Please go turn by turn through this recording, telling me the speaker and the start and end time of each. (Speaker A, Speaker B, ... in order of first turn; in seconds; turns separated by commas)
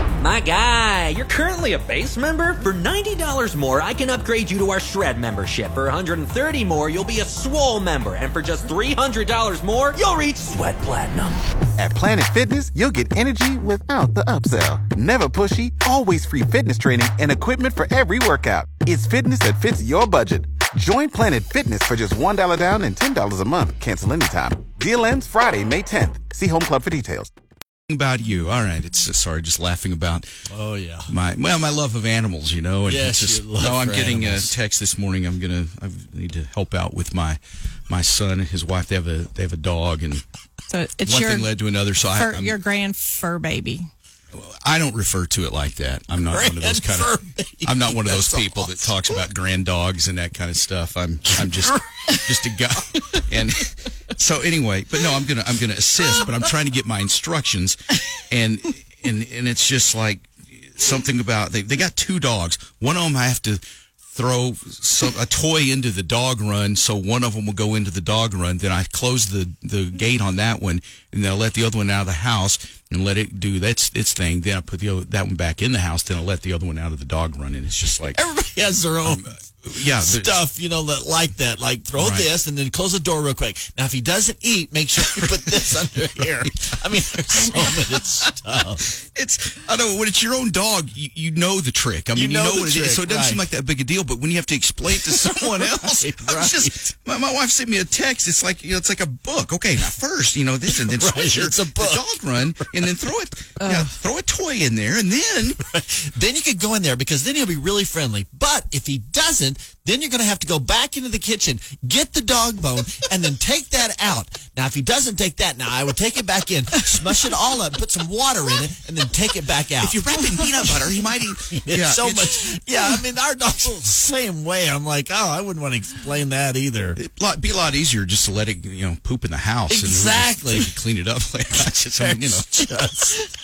Speaker A: 0.2-11.4, Speaker B: 11.8-27.3, Speaker C: 27.9-30.3, Speaker D: 30.5-31.1, Speaker C: 31.1-40.2, Speaker D: 32.9-34.5, Speaker E: 40.7-41.5, Speaker C: 41.0-42.6, Speaker E: 42.0-43.9, Speaker C: 44.3-78.2, Speaker D: 46.3-49.0, Speaker D: 51.5-51.8, Speaker D: 78.1-88.9, Speaker C: 79.0-80.4, Speaker C: 82.0-82.3, Speaker C: 85.1-85.7, Speaker C: 87.3-87.7, Speaker C: 89.0-105.6, Speaker D: 92.1-93.4, Speaker D: 94.9-96.9, Speaker D: 100.7-103.0, Speaker E: 103.6-103.9, Speaker D: 105.6-120.3, Speaker C: 119.8-122.6, Speaker D: 121.5-127.0, Speaker C: 127.0-132.8, Speaker D: 129.7-130.8, Speaker D: 131.6-133.3